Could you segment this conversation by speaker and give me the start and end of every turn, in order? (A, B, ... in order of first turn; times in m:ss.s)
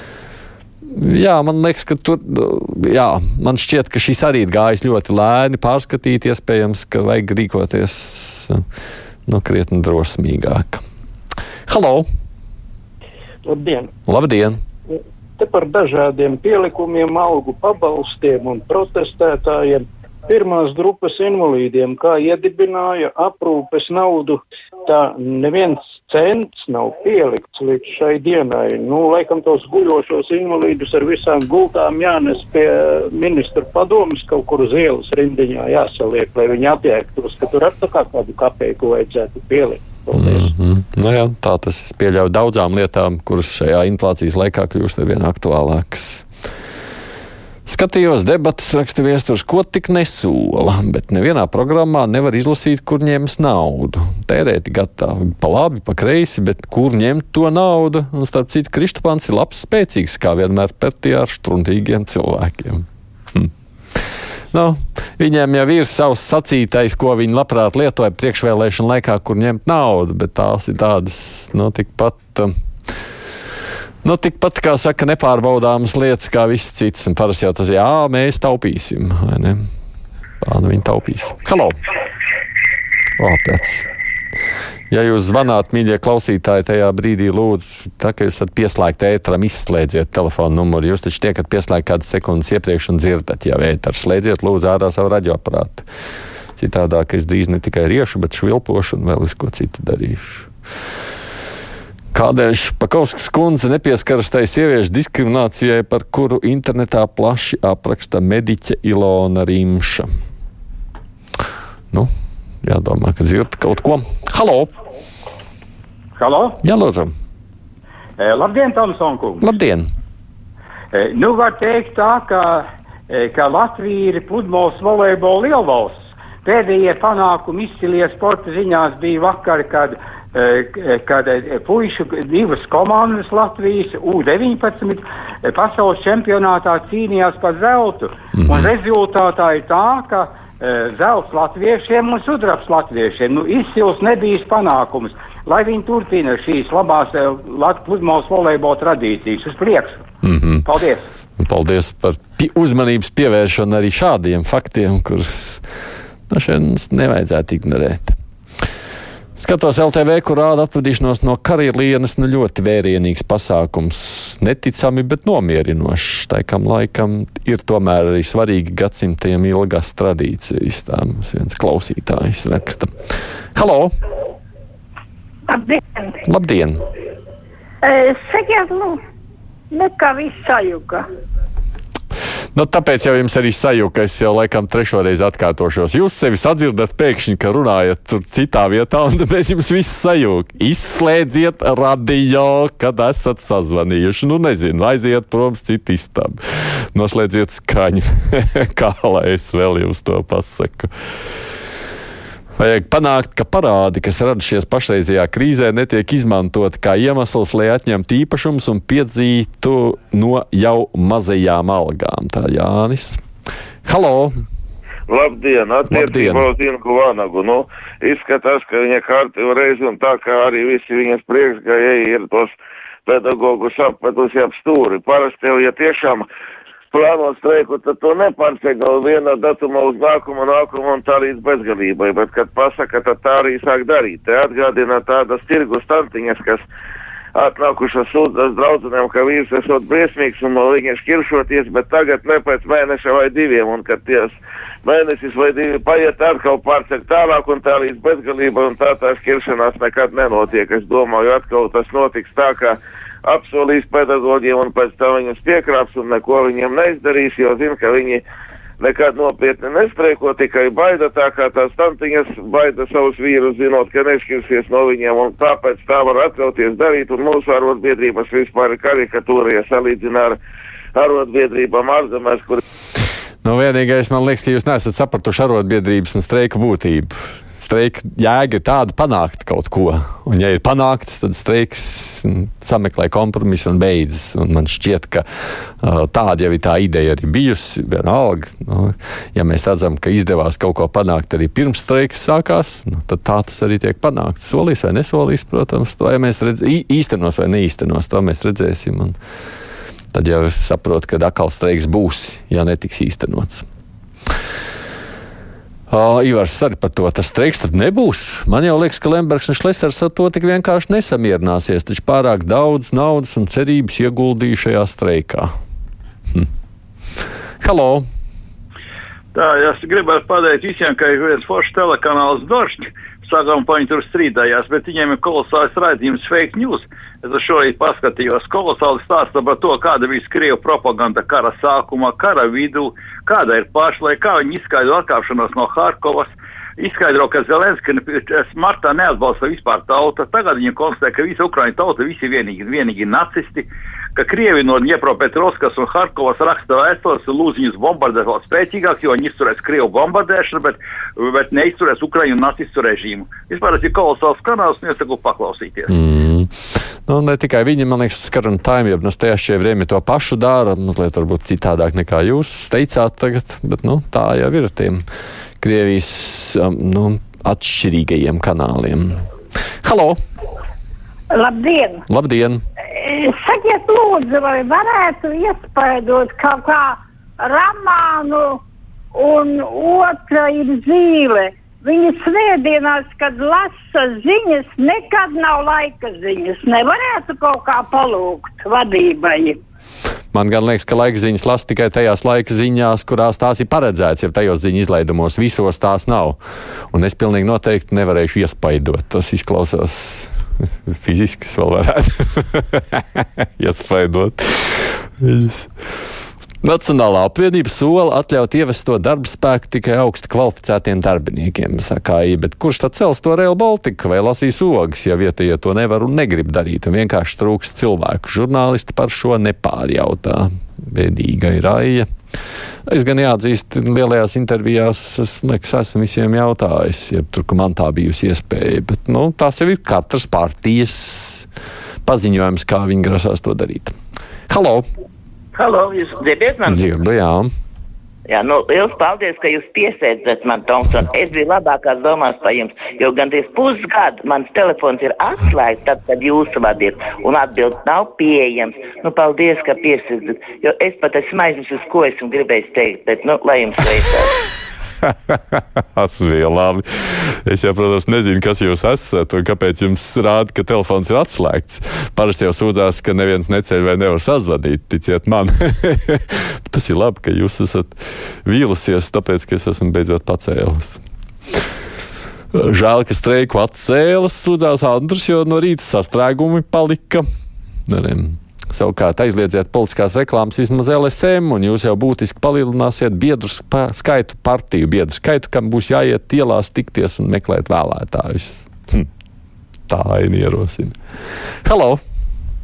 0:00.9-0:08.6 A
0:09.3-0:10.8 A
0:11.7-0:12.0 A
0:13.4-0:13.9 B
0:14.0-0:14.6 A
0:15.4-0:40.5 B
0:40.1-0:46.2 A
0:47.7-1:03.5 A
1:04.5-1:12.5 A
1:14.0-1:19.6 A
1:20.4-1:21.7 A
1:23.2-1:23.8 A
1:24.9-1:35.9 A
1:36.6-1:40.5 A
1:42.1-1:50.1 A
1:52.6-1:54.7 A
1:56.2-1:56.6 C
1:56.6-1:57.1 A
1:58.2-1:59.5 C
1:59.4-1:59.8 A
2:00.9-2:30.0 C
2:30.2-2:30.6 A
2:30.6-2:31.0 C
2:31.4-2:35.6 A
2:36.3-2:38.1 A
2:39.4-2:52.9 A
2:53.6-2:53.9 A
2:55.5-2:56.1 D
2:56.2-2:56.8 A
2:57.8-2:59.0 D
2:59.7-3:01.0 D
3:02.5-3:20.9 A
3:22.6-3:33.2 A
3:33.8-3:34.4 A
3:35.1-3:42.5 E
3:35.9-3:36.5 A
3:43.1-3:46.2 E
3:46.9-3:56.6 E
3:57.4-4:18.2 E
4:18.8-4:30.4 E
4:31.0-4:32.6 E
4:33.4-4:45.2 A
4:45.8-4:59.2 A
5:00.1-5:03.6 A
5:05.9-5:15.5 A
5:17.6-5:18.0 A
5:19.3-5:55.9 F
5:55.9-5:56.5 A
5:57.1-6:05.0 A
6:05.6-6:09.2 A
6:09.8-6:10.2 A
6:11.3-6:12.0 D
6:12.1-6:12.6 A
6:13.0-6:18.6 D
6:19.2-6:29.6 D
6:30.3-6:36.4 A
6:36.9-6:45.7 A
6:46.6-7:02.1 A
7:02.8-7:11.5 A
7:12.0-7:13.9 A
7:14.5-7:14.8 A
7:15.5-7:16.8 G
7:16.6-7:17.5 A
7:18.3-7:34.3 G
7:35.3-7:51.0 A
7:52.5-7:57.2 A
7:57.9-8:09.1 A
8:09.9-8:11.0 A
8:11.6-8:12.0 A